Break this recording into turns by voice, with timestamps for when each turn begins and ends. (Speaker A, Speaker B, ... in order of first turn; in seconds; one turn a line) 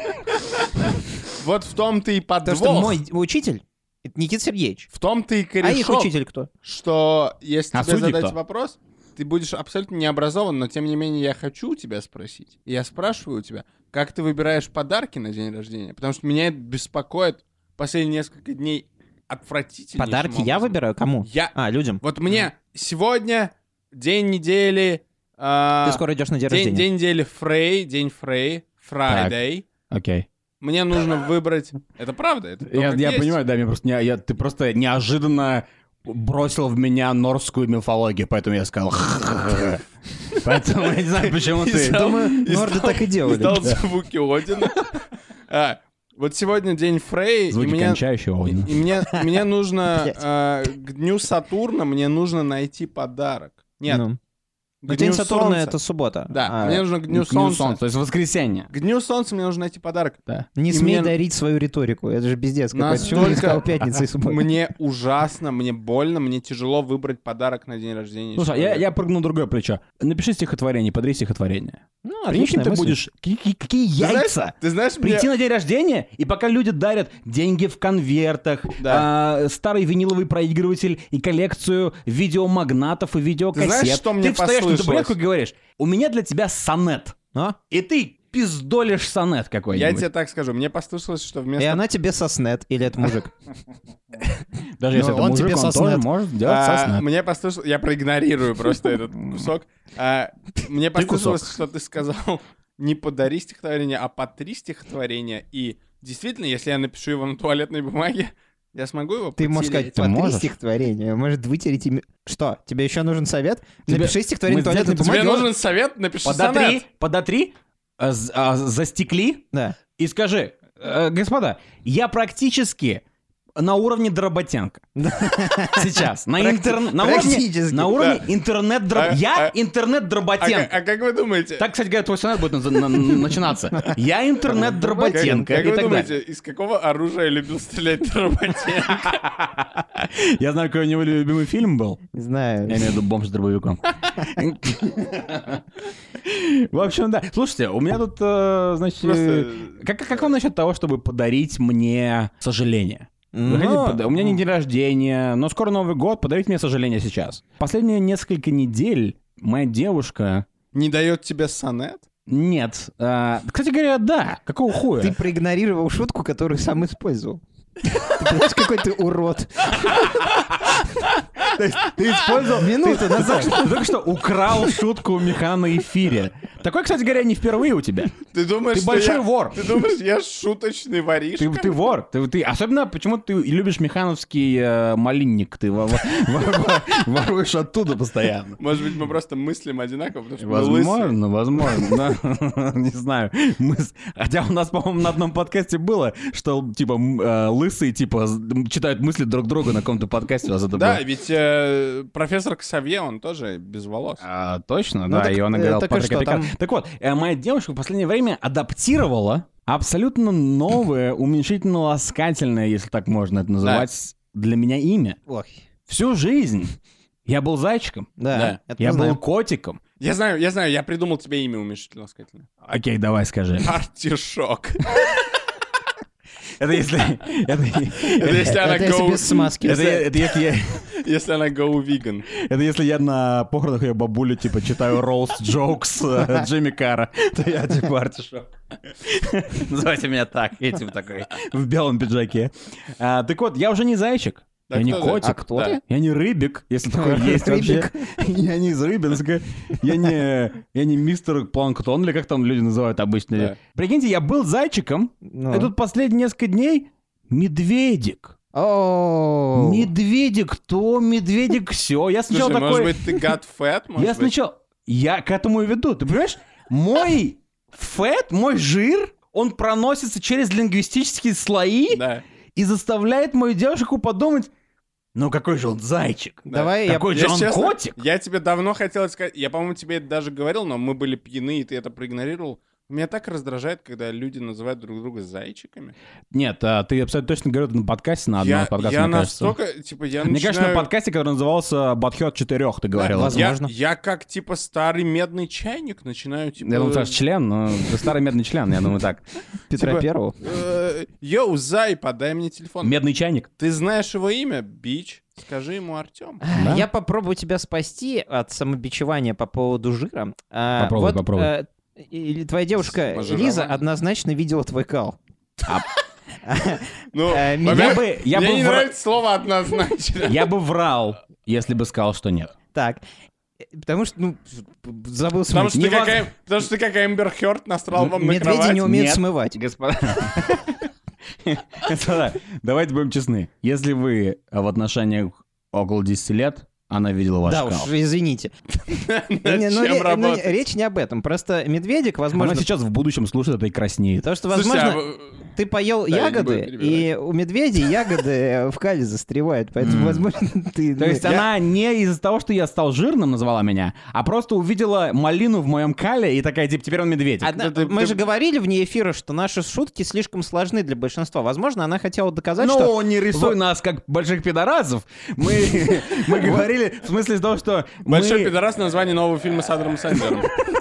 Speaker A: 1.3-3.0
Speaker B: 2.4-4.9
Speaker A: 4.9-6.1
Speaker B: 5.6-6.5
Speaker A: 6.6-29.7
Speaker C: 7.7-8.3
Speaker B: 20.0-22.0
Speaker B: 25.8-26.8
Speaker C: 29.1-29.3
Speaker C: 29.9-30.3
Speaker A: 30.6-33.4
Speaker C: 32.7-42.1
Speaker A: 41.2-54.0
Speaker B: 41.6-43.7
Speaker C: 47.5-48.8
Speaker B: 53.9-54.2
Speaker A: 54.8-55.7
Speaker B: 54.9-56.8
Speaker A: 56.3-57.8
Speaker C: 57.1-58.7
Speaker A: 58.7-60.2
Speaker B: 60.6-64.5
Speaker A: 60.7-61.1
Speaker A: 62.7-68.8
Speaker C: 68.3-87.2
Speaker B: 72.0-73.0
Speaker A: 74.0-75.3
Speaker A: 78.8-79.1
Speaker A: 83.5-85.1
Speaker C: 87.7-90.0
Speaker A: 89.7-91.8
Speaker B: 91.6-93.3
Speaker C: 94.8-97.0
Speaker B: 94.9-96.0
Speaker A: 96.4-110.0
Speaker C: 100.9-101.5
Speaker B: 109.4-115.5
Speaker C: 109.9-110.5
Speaker C: 113.9-115.5
Speaker A: 115.0-116.8
Speaker C: 116.2-123.0
Speaker C: 123.6-124.8
Speaker B: 125.0-128.1
Speaker C: 125.7-130.7
Speaker A: 128.0-128.2
Speaker A: 128.9-129.5
Speaker A: 130.4-131.7
Speaker C: 131.6-136.1
Speaker B: 134.5-135.9
Speaker A: 135.1-139.3
Speaker C: 139.2-142.0
Speaker B: 142.1-142.8
Speaker C: 142.6-160.5
Speaker A: 149.0-149.8
Speaker B: 153.3-154.3
Speaker A: 160.7-162.1
Speaker C: 162.3-165.2
Speaker B: 165.0-167.4
Speaker B: 168.0-170.2
Speaker C: 171.4-178.2
Speaker B: 172.3-173.7
Speaker A: 178.3-181.7
Speaker C: 178.7-179.7
Speaker C: 181.4-188.6
Speaker A: 188.6-191.1
Speaker C: 190.4-201.0
Speaker A: 200.7-204.2
Speaker C: 204.2-215.2
Speaker B: 205.1-206.5
Speaker B: 215.3-215.6
Speaker C: 215.9-216.7
Speaker C: 217.2-218.2
Speaker B: 218.2-219.2
Speaker A: 218.3-218.6
Speaker C: 218.8-219.8
Speaker A: 220.0-222.5
Speaker C: 222.6-223.7
Speaker A: 223.6-224.8
Speaker C: 226.6-228.5
Speaker A: 228.1-229.8
Speaker B: 228.4-230.1
Speaker C: 229.6-230.9
Speaker A: 230.9-232.3
Speaker C: 232.3-258.3
Speaker A: 244.7-245.8
Speaker B: 245.2-245.8
Speaker B: 246.9-248.1
Speaker B: 255.3-255.7
Speaker B: 258.5-259.9
Speaker C: 259.5-263.1
Speaker A: 262.3-264.3
Speaker C: 264.0-272.0
Speaker A: 271.9-272.2
Speaker C: 272.5-274.5
Speaker C: 275.1-277.9
Speaker A: 276.5-285.9
Speaker B: 276.5-277.1
Speaker C: 286.3-289.6
Speaker A: 288.4-290.9
Speaker C: 290.2-293.5
Speaker A: 292.9-297.2
Speaker B: 293.1-293.7
Speaker C: 296.6-299.2
Speaker B: 299.7-300.4
Speaker A: 299.7-302.9
Speaker C: 302.8-303.5
Speaker A: 303.6-306.4
Speaker B: 306.4-315.2
Speaker C: 306.5-306.9
Speaker C: 310.8-311.5
Speaker A: 312.9-313.8
Speaker B: 316.4-318.0
Speaker A: 317.1-320.4
Speaker C: 317.6-318.9
Speaker C: 320.2-322.5
Speaker B: 322.7-323.0
Speaker B: 323.7-325.8
Speaker A: 325.5-328.9
Speaker C: 325.7-326.2
Speaker B: 328.1-329.6
Speaker C: 328.8-330.9
Speaker C: 331.4-337.9
Speaker B: 337.4-338.5
Speaker A: 338.9-340.6
Speaker B: 339.4-342.6
Speaker C: 342.3-344.2
Speaker B: 344.2-351.3
Speaker A: 344.5-345.4
Speaker A: 346.1-347.1
Speaker C: 349.8-350.2
Speaker C: 351.0-357.5
Speaker B: 357.4-363.6
Speaker A: 357.5-358.2
Speaker C: 362.6-368.5
Speaker A: 368.1-370.5